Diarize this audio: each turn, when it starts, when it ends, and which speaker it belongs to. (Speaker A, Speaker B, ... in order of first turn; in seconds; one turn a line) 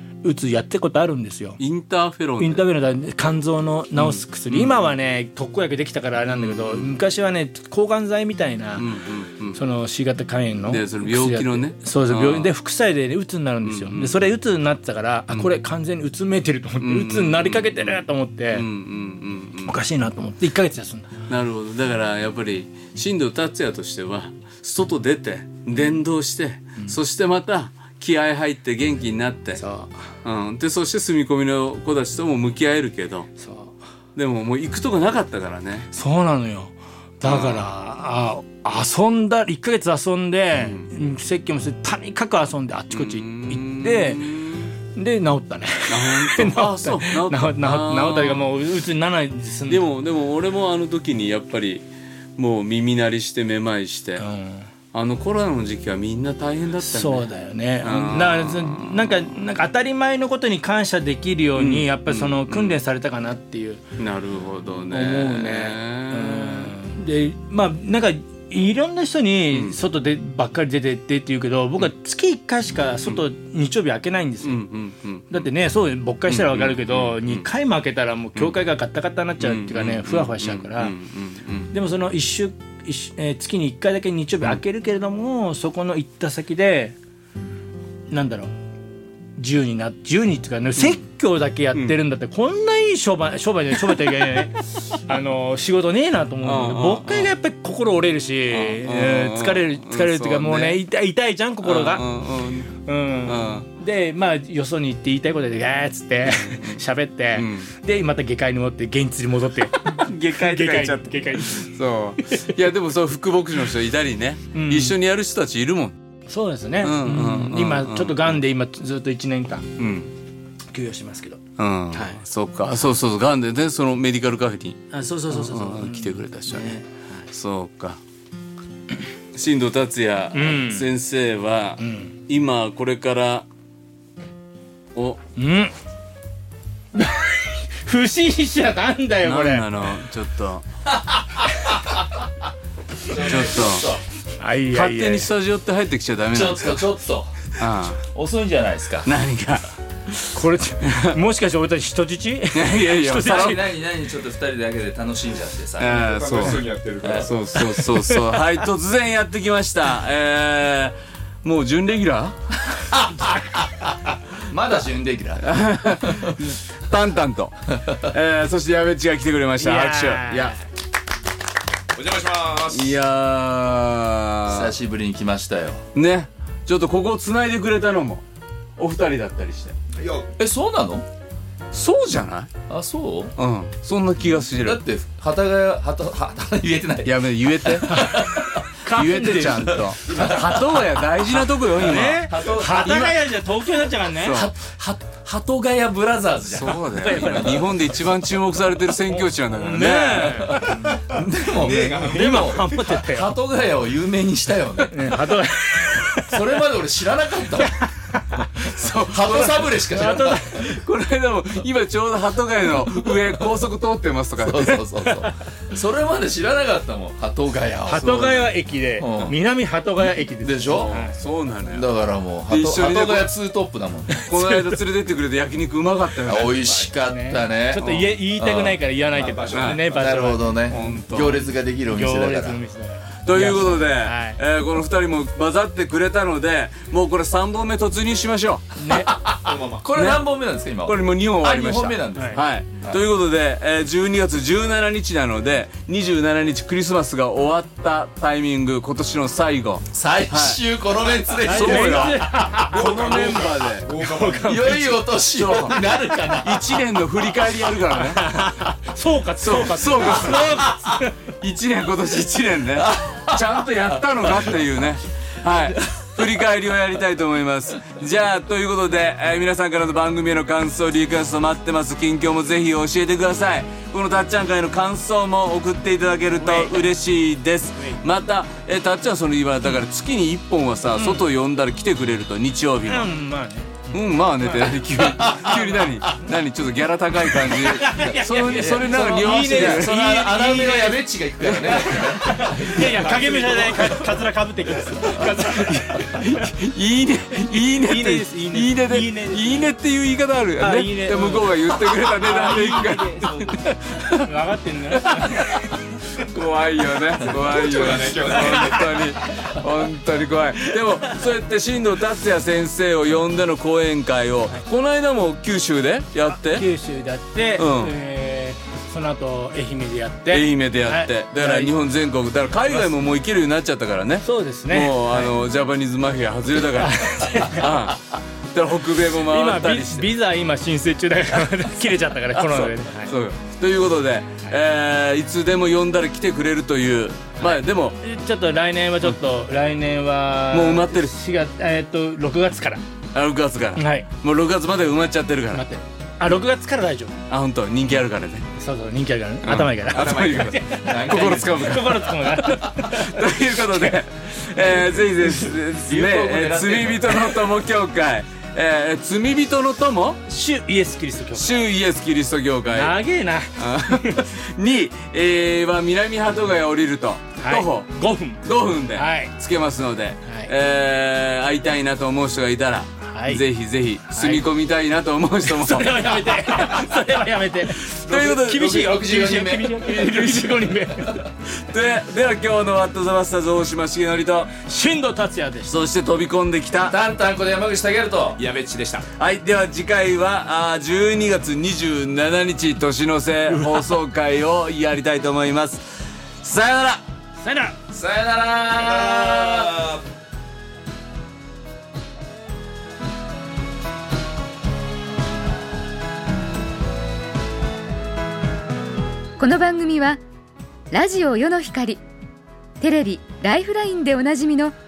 Speaker A: 0.2-1.6
Speaker B: 1.6-2.6
Speaker A: 2.4-8.9
Speaker B: 4.0-4.7
Speaker B: 6.3-6.9
Speaker B: 8.8-9.6
Speaker A: 9.5-18.7
Speaker B: 10.7-12.5
Speaker B: 13.6-14.2
Speaker B: 16.8-19.8
Speaker A: 19.6-21.1
Speaker B: 21.3-29.6
Speaker A: 29.5-29.9
Speaker B: 30.2-33.3
Speaker A: 33.4-33.8
Speaker B: 34.1-35.9
Speaker A: 35.9-44.3
Speaker B: 37.2-37.7
Speaker B: 40.6-40.9
Speaker B: 42.9-44.7
Speaker A: 44.9-49.8
Speaker B: 45.9-48.5
Speaker B: 49.7-51.8
Speaker B: 52.4-54.2
Speaker A: 54.2-54.6
Speaker B: 54.9-57.3
Speaker A: 56.8-63.8
Speaker B: 57.8-59.3
Speaker B: 61.5-62.8
Speaker B: 64.0-66.7
Speaker A: 64.9-74.6
Speaker B: 69.5-69.8
Speaker B: 74.4-75.5
Speaker A: 75.3-80.9
Speaker B: 76.3-77.5
Speaker B: 79.4-81.7
Speaker A: 81.7-87.0
Speaker A: 88.1-88.5
Speaker A: 89.4-102.1
Speaker B: 96.4-97.3
Speaker B: 98.5-100.8
Speaker B: 101.6-102.7
Speaker A: 102.8-112.5
Speaker B: 103.2-103.7
Speaker B: 106.2-106.8
Speaker B: 107.3-107.7
Speaker B: 109.8-116.0
Speaker A: 114.5-115.0
Speaker A: 116.3-119.8
Speaker B: 116.8-118.4
Speaker B: 119.8-120.1
Speaker A: 120.7-122.2
Speaker B: 121.6-126.8
Speaker A: 124.9-127.3
Speaker B: 127.3-128.0
Speaker B: 129.3-133.4
Speaker A: 130.3-130.9
Speaker A: 131.8-132.1
Speaker B: 134.9-135.2
Speaker A: 135.3-135.7
Speaker A: 136.9-139.9
Speaker B: 139.2-140.6
Speaker C: 143.1-144.0
Speaker B: 143.1-143.9
Speaker A: 144.4-145.3
Speaker B: 144.7-146.8
Speaker C: 146.3-147.3
Speaker B: 147.6-148.0
Speaker C: 148.1-149.1
Speaker B: 149.0-149.7
Speaker A: 150.3-153.6
Speaker B: 150.8-151.2
Speaker B: 152.5-153.6
Speaker C: 153.2-157.3
Speaker B: 155.8-162.4
Speaker D: 156.2-157.1
Speaker A: 157.5-158.4
Speaker C: 162.8-166.3
Speaker B: 165.4-170.6
Speaker A: 169.6-170.6
Speaker D: 171.9-172.9
Speaker B: 172.7-174.8
Speaker C: 174.5-175.8
Speaker B: 175.9-178.2
Speaker B: 178.8-179.8
Speaker C: 180.4-181.0
Speaker B: 181.7-182.5
Speaker C: 182.7-183.3
Speaker B: 183.4-184.8
Speaker C: 184.6-188.6
Speaker B: 187.0-188.2
Speaker A: 187.8-190.0
Speaker B: 188.8-192.3
Speaker C: 190.1-190.8
Speaker A: 191.7-194.5
Speaker C: 192.1-193.3
Speaker B: 194.1-194.5
Speaker C: 194.3-197.3
Speaker B: 196.5-200.6
Speaker A: 196.8-197.8
Speaker A: 199.1-203.3
Speaker C: 200.4-205.3
Speaker A: 204.9-206.4
Speaker C: 206.2-207.8
Speaker A: 207.6-208.4
Speaker B: 208.6-214.8
Speaker C: 209.1-210.5
Speaker A: 209.9-210.6
Speaker C: 214.4-219.3
Speaker A: 215.0-215.3
Speaker A: 217.9-221.1
Speaker C: 220.4-220.9
Speaker B: 220.7-221.9
Speaker C: 221.7-224.3
Speaker B: 222.5-223.3
Speaker B: 224.2-226.6
Speaker C: 226.2-227.8
Speaker A: 226.6-230.5
Speaker B: 227.8-228.1
Speaker C: 228.4-228.7
Speaker D: 229.3-229.5
Speaker B: 229.5-229.9
Speaker C: 229.5-232.6
Speaker B: 230.7-231.4
Speaker A: 231.9-234.4
Speaker B: 233.2-239.3
Speaker A: 238.8-239.2
Speaker C: 239.0-243.0
Speaker D: 239.5-239.8
Speaker B: 239.9-240.2
Speaker B: 240.8-250.6
Speaker C: 249.9-252.3
Speaker B: 251.4-254.1
Speaker A: 251.4-255.0
Speaker D: 252.9-253.7
Speaker C: 254.2-256.8
Speaker B: 255.3-258.4
Speaker A: 257.9-261.2
Speaker B: 259.4-260.6
Speaker B: 261.4-283.1
Speaker A: 276.4-276.8
Speaker A: 280.9-281.2
Speaker A: 282.9-284.0
Speaker B: 283.9-290.0
Speaker C: 285.1-285.9
Speaker A: 287.5-296.5
Speaker C: 288.6-294.1
Speaker B: 295.2-304.3
Speaker A: 297.7-299.7
Speaker A: 300.6-305.8
Speaker B: 304.9-316.6
Speaker C: 307.6-308.6
Speaker A: 307.9-308.9
Speaker A: 316.3-321.8
Speaker B: 317.6-317.9
Speaker B: 320.3-330.1
Speaker A: 324.2-325.4
Speaker A: 326.7-327.7
Speaker A: 329.2-333.1
Speaker B: 332.3-338.0
Speaker A: 337.4-342.8
Speaker B: 340.5-341.1
Speaker B: 343.1-345.6
Speaker A: 343.8-344.1
Speaker A: 345.5-347.2
Speaker B: 347.3-348.5
Speaker A: 348.5-355.5
Speaker B: 349.4-360.2
Speaker C: 349.9-351.7
Speaker C: 355.8-357.1
Speaker A: 360.3-361.5
Speaker B: 361.3-363.0
Speaker A: 362.7-364.2
Speaker B: 363.6-376.8
Speaker A: 367.4-369.3
Speaker A: 370.2-370.5
Speaker A: 373.1-373.4
Speaker A: 374.1-374.4
Speaker A: 375.4-381.2
Speaker B: 378.1-378.8
Speaker C: 378.1-379.9
Speaker B: 380.0-380.6
Speaker B: 381.5-384.5
Speaker A: 384.5-385.8
Speaker B: 385.7-386.9
Speaker C: 386.9-388.4
Speaker D: 388.4-389.1
Speaker B: 389.1-397.0
Speaker A: 393.5-393.8
Speaker A: 397.4-397.8
Speaker C: 397.9-400.0
Speaker E: 409.4-410.2
Speaker E: 410.9-412.0
Speaker E: 412.8-414.7